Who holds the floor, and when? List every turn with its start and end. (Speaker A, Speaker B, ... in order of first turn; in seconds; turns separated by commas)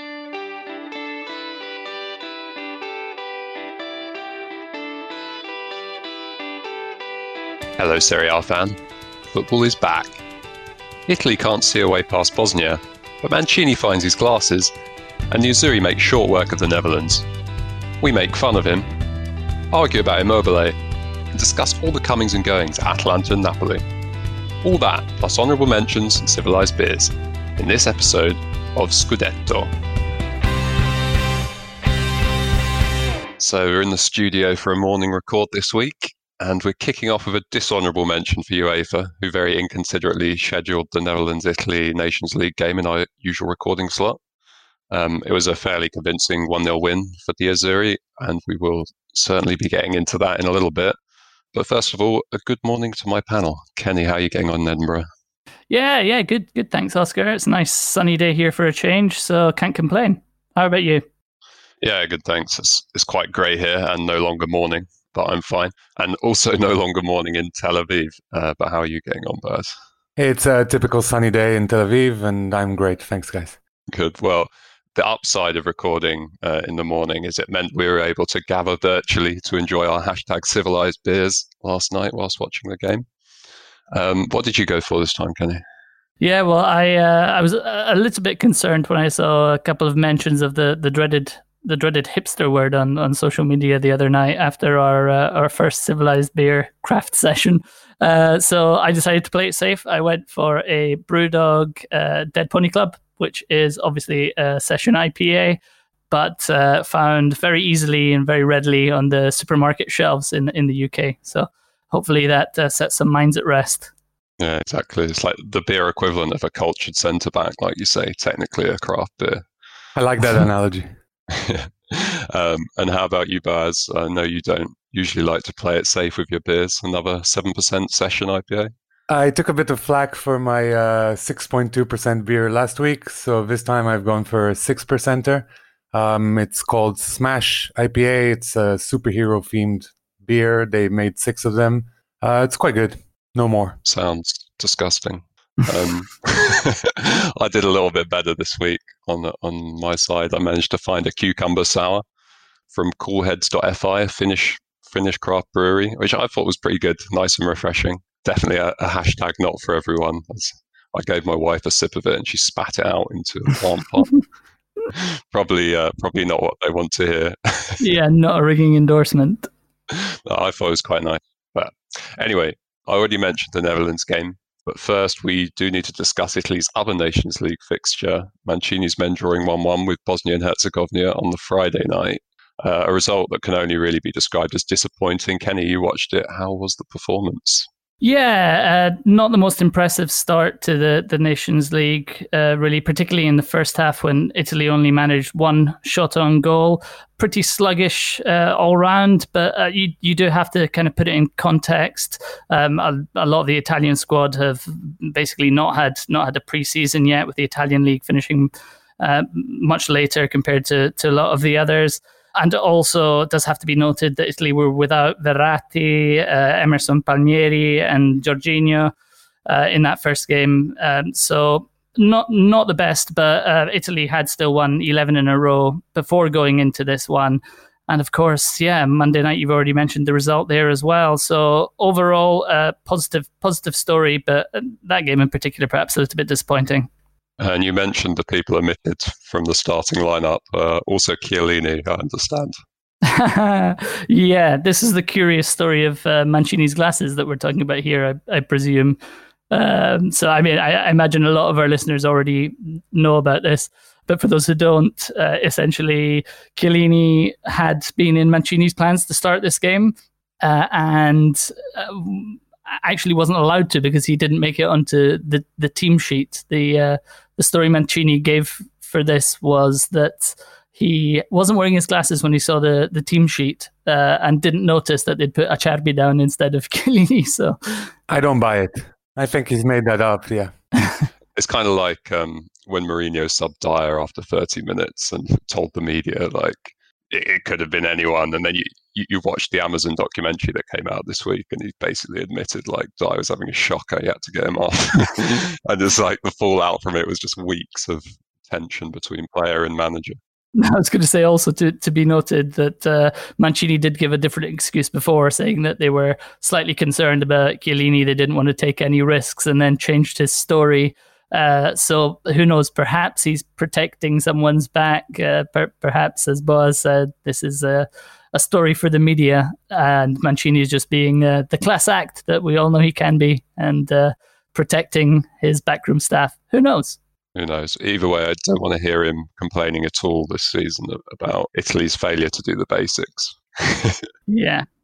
Speaker A: 7.8-8.8, Speaker A: 9.3-10.2, Speaker A: 11.1-14.7, Speaker A: 15.3-17.3, Speaker A: 18.0-18.9, Speaker A: 19.7-20.8, Speaker A: 21.3-23.8, Speaker A: 24.6-29.7, Speaker A: 33.4-44.2, Speaker A: 44.9-51.0, Speaker A: 51.5-55.1, Speaker B: 55.7-61.0, Speaker A: 61.8-69.8, Speaker C: 70.2-73.6, Speaker A: 73.9-83.1, Speaker A: 83.9-85.6, Speaker B: 86.2-113.9, Speaker A: 114.4-119.5, Speaker C: 120.0-120.9, Speaker A: 121.3-128.7, Speaker C: 129.1-143.8, Speaker A: 143.8-152.0, Speaker A: 152.7-164.2, Speaker A: 164.9-167.9, Speaker B: 167.8-169.5, Speaker A: 169.9-187.7, Speaker B: 188.0-218.9, Speaker B: 219.5-236.9, Speaker A: 237.4-242.6, Speaker B: 243.0-249.0, Speaker B: 249.5-277.9, Speaker C: 278.1-280.6, Speaker A: 281.4-300.2, Speaker B: 300.6-327.0, Speaker A: 327.4-334.1, Speaker B: 334.3-334.7